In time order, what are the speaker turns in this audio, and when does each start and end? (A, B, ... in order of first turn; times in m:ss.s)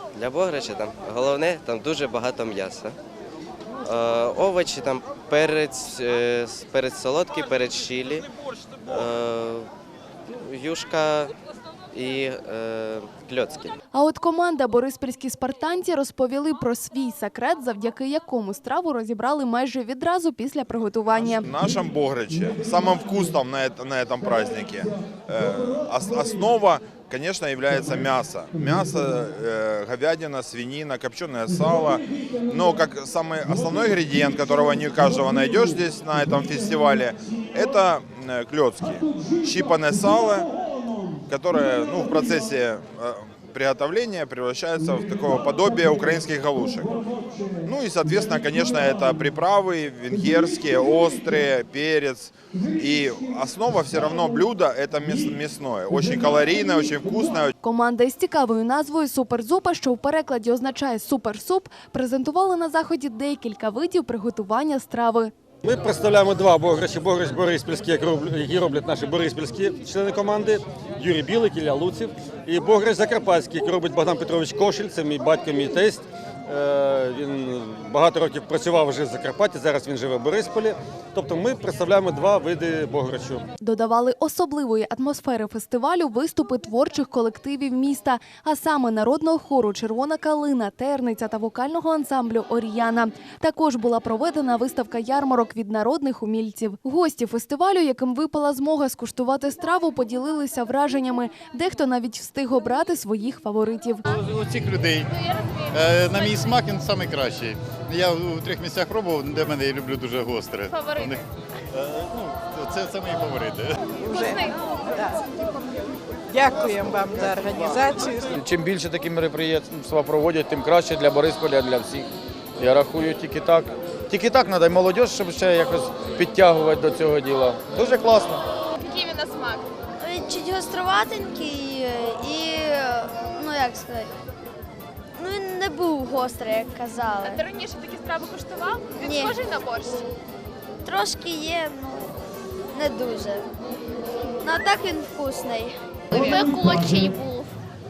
0:00.1-0:02.9 A
0:03.8-0:08.3 A
0:08.8-0:09.7 A
0:10.3-0:11.3 A
0:11.9-0:13.7 A
0:13.9-0:21.5 B
0:21.4-0:40.5 C
0:41.3-0:57.5 C
0:57.6-1:05.3 B
1:05.6-1:23.5 D
1:23.6-1:44.1 B
1:44.1-1:45.1 E
1:45.2-1:46.4 F
1:45.7-1:53.8 E
1:50.7-1:51.1 F
1:54.0-1:54.4 G
1:54.1-1:54.6 F
1:56.3-1:58.3 G
1:58.4-2:02.1 H
2:02.6-2:08.4 H
2:08.8-2:09.6 F
2:10.0-2:14.1 I
2:15.2-2:17.4 I
2:17.3-2:20.0 F
2:19.0-2:19.3 I
2:20.8-2:22.2 I
2:22.7-2:23.5 I
2:24.4-2:25.8 I
2:26.1-2:27.5 F